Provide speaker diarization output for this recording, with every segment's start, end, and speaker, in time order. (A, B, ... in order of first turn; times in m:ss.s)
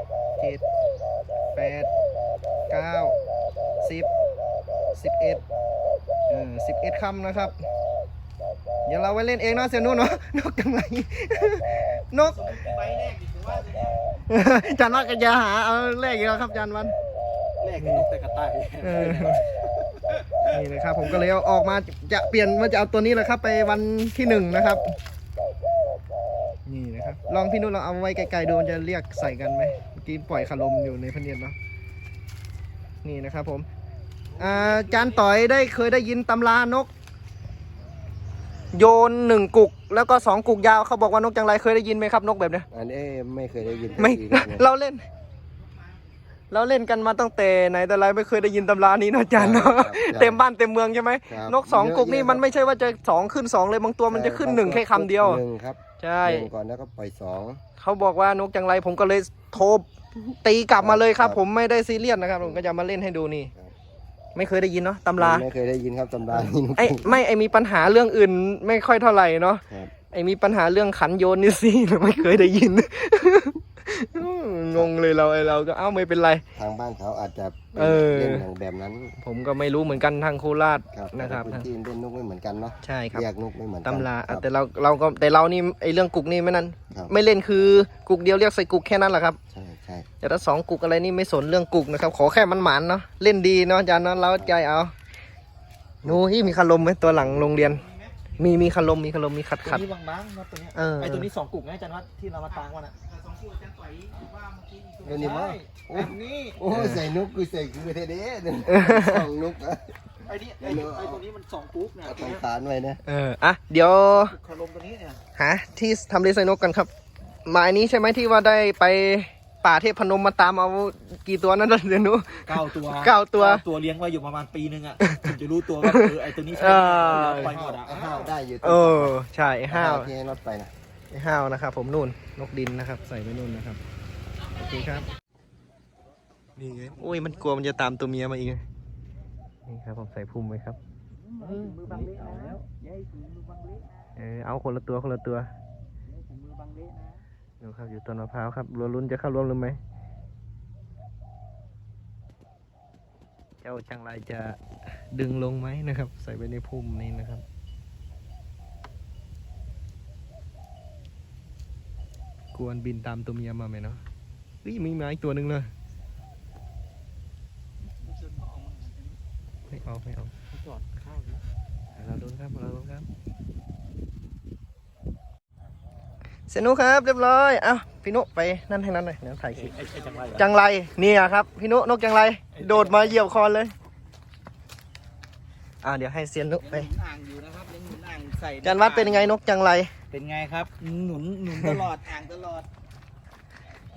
0:00.4-0:00.6 A
0:01.6-0:01.9 A
0:02.7-0:03.2 A
0:03.8-0:04.1 A
0:05.0-0:05.4 A
0:06.3-0:07.6 A
0:08.9-0:12.5 A
0:12.2-0:14.1 B
0:14.3-0:17.0 A
0:17.6-0:21.2 B
0:17.8-0:18.1 A
0:18.8-0:19.4 A
0:20.5-0:25.0 A
0:26.7-0:31.6 A
0:33.0-0:33.7 A
0:34.3-0:35.7 B
0:34.4-0:36.9 A
0:38.7-0:42.7 A
0:42.7-0:44.7 C
0:43.7-0:44.0 B
0:44.0-0:45.0 A
0:46.5-0:55.4 A
0:49.4-0:50.4 C
0:51.3-0:52.4 C
0:54.1-0:57.6 C
0:56.0-0:56.5 A
0:57.8-1:03.5 A
1:00.8-1:01.4 C
1:02.4-1:02.8 C
1:04.4-1:05.4 A
1:05.2-1:07.2 C
1:06.8-1:16.4 A
1:09.7-1:09.9 C
1:16.6-1:19.2 C
1:17.8-1:18.5 A
1:19.2-1:21.7 A
1:20.9-1:24.5 C
1:22.8-1:23.3 A
1:23.8-1:29.4 A
1:29.5-1:30.1 C
1:30.2-1:34.9 A
1:36.0-1:37.6 C
1:36.0-1:37.8 A
1:37.7-1:38.3 B
1:38.4-1:39.8 A
1:39.6-1:46.6 B
1:40.7-1:41.3 A
1:45.0-1:50.0 C
1:46.7-1:47.0 A
1:48.7-1:49.2 A
1:50.3-1:52.4 B
1:50.6-1:51.2 C
1:52.0-1:53.0 C
1:53.0-1:54.4 A
1:54.1-1:55.2 B
1:55.4-1:56.9 A
1:57.4-2:03.6 A
2:02.5-2:08.3 B
2:05.8-2:07.6 A
2:07.4-2:09.2 C
2:08.6-2:10.1 A
2:09.7-2:10.7 C
2:11.1-2:13.8 A
2:14.6-2:15.1 A
2:16.6-2:18.6 A
2:19.7-2:20.8 A
2:21.1-2:24.1 B
2:21.4-2:22.6 A
2:24.2-2:25.5 A
2:26.1-2:27.2 B
2:27.6-2:29.8 A
2:33.6-2:37.4 A
2:42.5-2:44.0 A
2:44.6-2:45.7 A
2:48.0-2:49.2 B
2:49.7-2:50.4 A
2:50.5-2:51.4 B
2:52.0-2:53.1 A
2:56.5-2:59.8 A
2:59.5-3:00.5 B
3:00.3-3:03.7 A
3:02.5-3:03.2 B
3:05.8-3:06.9 A
3:06.6-3:09.4 B
3:08.6-3:09.9 A
3:10.1-3:12.7 B